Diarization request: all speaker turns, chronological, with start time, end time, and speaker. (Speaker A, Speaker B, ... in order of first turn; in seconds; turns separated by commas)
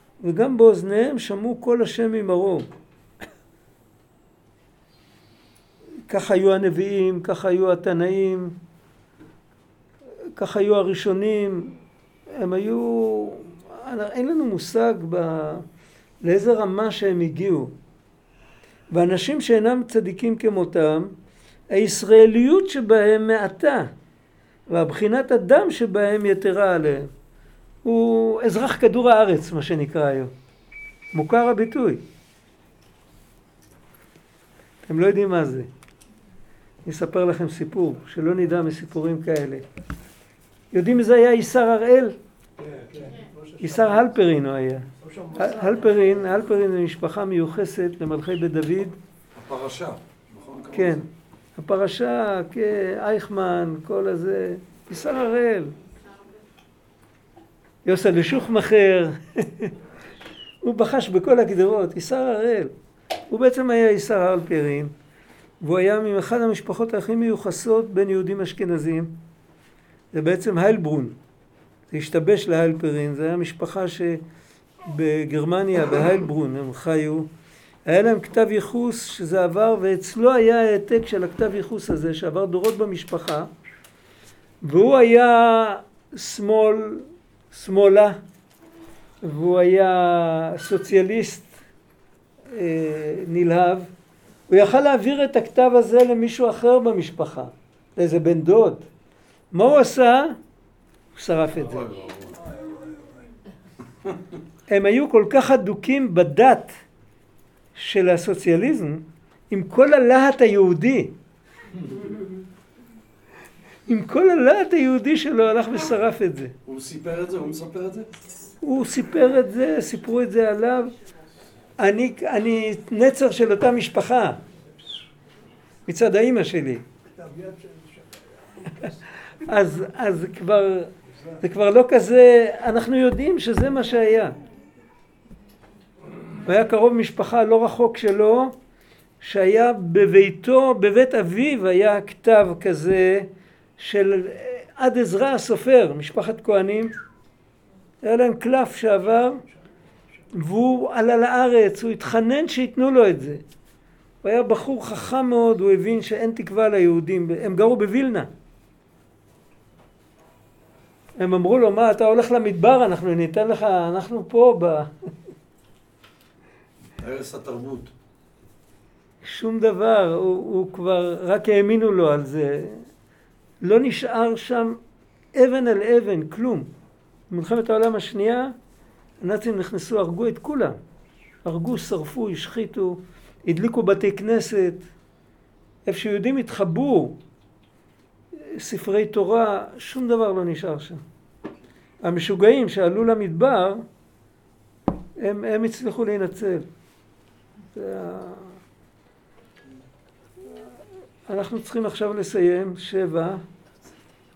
Speaker A: 0.2-2.7, Speaker A: 6.1-8.6, Speaker A: 10.3-11.7, Speaker A: 12.3-15.7, Speaker A: 16.2-17.7, Speaker A: 18.9-21.1, Speaker A: 21.7-23.9, Speaker A: 24.7-27.1, Speaker A: 27.8-30.3, Speaker A: 31.1-32.0, Speaker A: 34.9-35.7, Speaker A: 36.9-39.6, Speaker A: 40.7-42.2, Speaker B: 42.6-44.1, Speaker A: 43.6-49.0, Speaker B: 45.0-46.2, Speaker C: 49.4-51.0, Speaker A: 50.7-51.0, Speaker A: 51.6-55.8, Speaker A: 57.9-59.7, Speaker A: 60.6-62.7, Speaker A: 63.3-64.9, Speaker A: 65.6-69.1, Speaker A: 70.1-71.2, Speaker A: 71.9-74.2, Speaker A: 74.8-77.3, Speaker A: 77.9-83.5, Speaker A: 84.6-88.2, Speaker A: 89.2-91.5, Speaker A: 92.5-93.9, Speaker A: 94.5-98.9, Speaker A: 99.5-100.4, Speaker A: 101.2-101.9, Speaker C: 101.7-102.5, Speaker B: 102.7-103.0, Speaker A: 104.7-106.8, Speaker A: 107.8-111.1, Speaker A: 113.9-116.5, Speaker C: 116.7-118.1, Speaker A: 118.6-120.9, Speaker A: 121.8-124.4, Speaker A: 125.9-126.8, Speaker B: 127.1-128.9, Speaker A: 129.4-134.3, Speaker A: 136.4-138.5, Speaker A: 139.2-146.9, Speaker A: 148.0-149.4, Speaker A: 150.4-153.4, Speaker A: 154.2-158.3, Speaker A: 161.2-164.9, Speaker C: 167.0-167.9, Speaker A: 169.2-172.8, Speaker A: 173.6-174.8, Speaker A: 175.3-176.7, Speaker A: 177.3-178.5, Speaker A: 179.2-180.8, Speaker A: 181.4-184.8, Speaker A: 185.9-187.2, Speaker A: 188.5-191.0, Speaker A: 192.0-193.8, Speaker A: 195.2-196.7, Speaker A: 197.7-198.5, Speaker A: 201.3-203.4